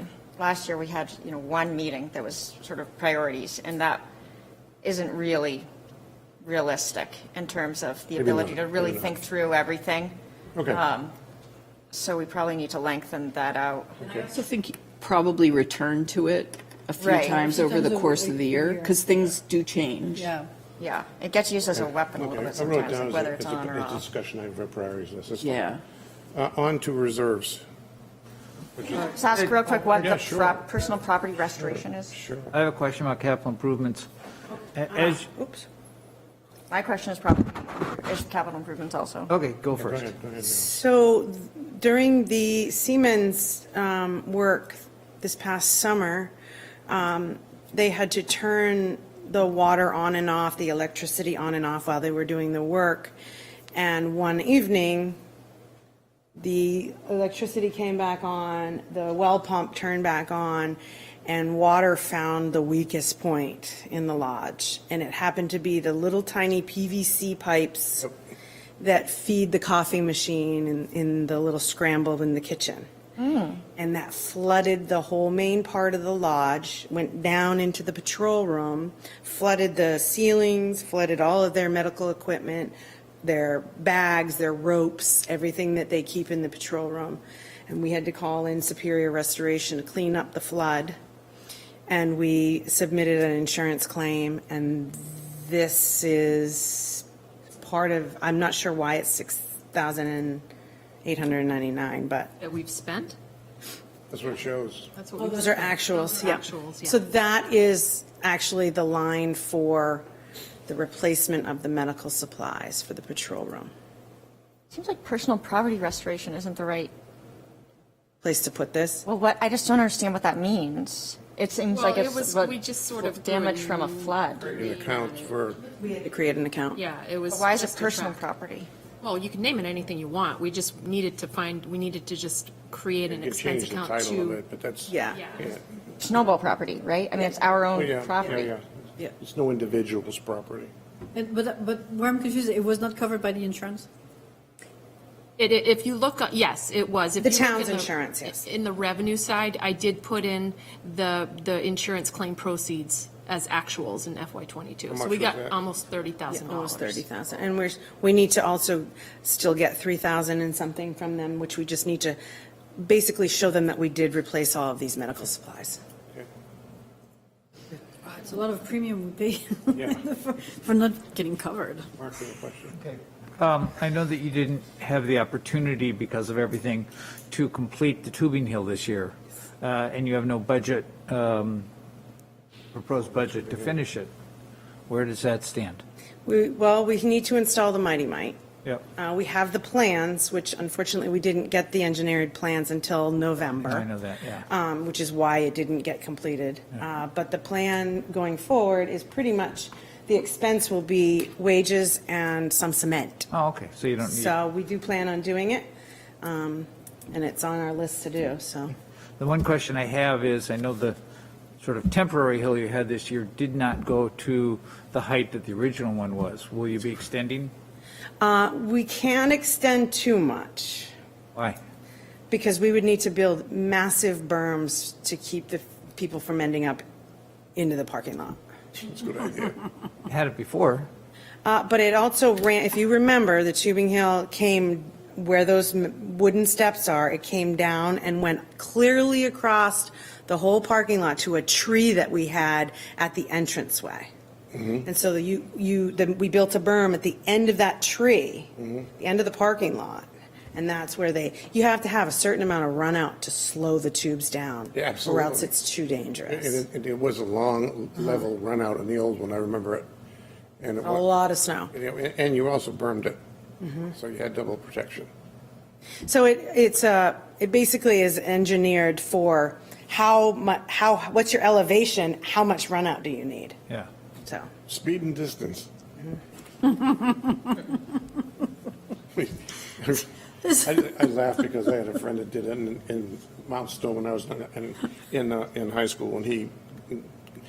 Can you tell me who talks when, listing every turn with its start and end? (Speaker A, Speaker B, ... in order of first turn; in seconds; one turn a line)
Speaker A: 0.4-4.0
Speaker A: 4.8-5.7
Speaker A: 6.4-10.1
Speaker B: 8.2-9.2
Speaker B: 10.5-10.8
Speaker A: 10.7-11.1
Speaker A: 11.9-13.9
Speaker B: 14.0-14.3
Speaker C: 14.3-20.3
Speaker A: 17.0-17.5
Speaker D: 17.2-19.0
Speaker D: 20.1-20.5
Speaker A: 20.8-24.0
Speaker B: 21.7-25.7
Speaker C: 25.4-25.8
Speaker B: 26.3-27.6
Speaker B: 28.8-29.1
Speaker A: 29.1-32.1
Speaker B: 30.0-30.6
Speaker B: 31.6-32.5
Speaker E: 32.5-34.1
Speaker E: 34.8-35.3
Speaker F: 34.9-35.6
Speaker A: 36.7-39.3
Speaker E: 39.3-40.1
Speaker B: 39.8-40.7
Speaker F: 40.4-46.3
Speaker F: 46.9-53.1
Speaker F: 53.7-55.2
Speaker F: 56.4-68.1
Speaker F: 68.8-72.9
Speaker A: 73.2-73.6
Speaker F: 73.7-91.0
Speaker F: 91.9-97.0
Speaker F: 97.6-100.4
Speaker F: 101.0-102.3
Speaker G: 102.4-103.2
Speaker B: 104.1-104.9
Speaker G: 104.9-107.0
Speaker F: 105.4-110.0
Speaker F: 110.7-113.7
Speaker A: 114.7-116.9
Speaker F: 118.2-119.0
Speaker A: 119.0-124.6
Speaker G: 121.7-125.3
Speaker B: 124.5-125.6
Speaker F: 125.8-126.8
Speaker G: 126.7-128.2
Speaker A: 127.3-128.7
Speaker G: 129.0-134.4
Speaker B: 133.1-135.6
Speaker F: 134.9-135.2
Speaker A: 136.0-138.5
Speaker B: 137.7-140.7
Speaker D: 141.1-143.9
Speaker G: 145.4-157.0
Speaker F: 147.2-148.4
Speaker B: 154.9-155.6
Speaker F: 156.3-162.2
Speaker F: 162.8-165.8
Speaker D: 168.0-171.9
Speaker B: 169.7-170.0
Speaker B: 172.0-172.8
Speaker E: 172.8-181.7
Speaker E: 182.7-184.1
Speaker B: 183.4-183.7
Speaker E: 184.9-185.8
Speaker F: 186.2-188.4
Speaker F: 188.9-193.9
Speaker E: 193.5-194.4
Speaker F: 194.4-203.3
Speaker E: 203.3-204.4
Speaker F: 204.0-205.7
Speaker F: 206.2-208.7
Speaker E: 209.2-211.0
Speaker E: 211.6-217.5
Speaker F: 218.2-220.9
Speaker F: 222.3-226.8
Speaker F: 227.5-228.4
Speaker B: 228.8-229.6
Speaker E: 230.1-230.9
Speaker F: 231.4-244.1
Speaker B: 244.5-244.8
Speaker F: 244.8-256.6
Speaker B: 248.6-248.9
Speaker B: 254.7-255.5
Speaker B: 256.3-259.9
Speaker B: 260.6-261.1
Speaker F: 260.8-261.7
Speaker B: 261.7-263.2
Speaker B: 263.7-265.1
Speaker F: 266.0-273.6
Speaker F: 274.2-274.5
Speaker B: 274.7-275.7
Speaker D: 276.8-277.2
Speaker B: 279.1-287.1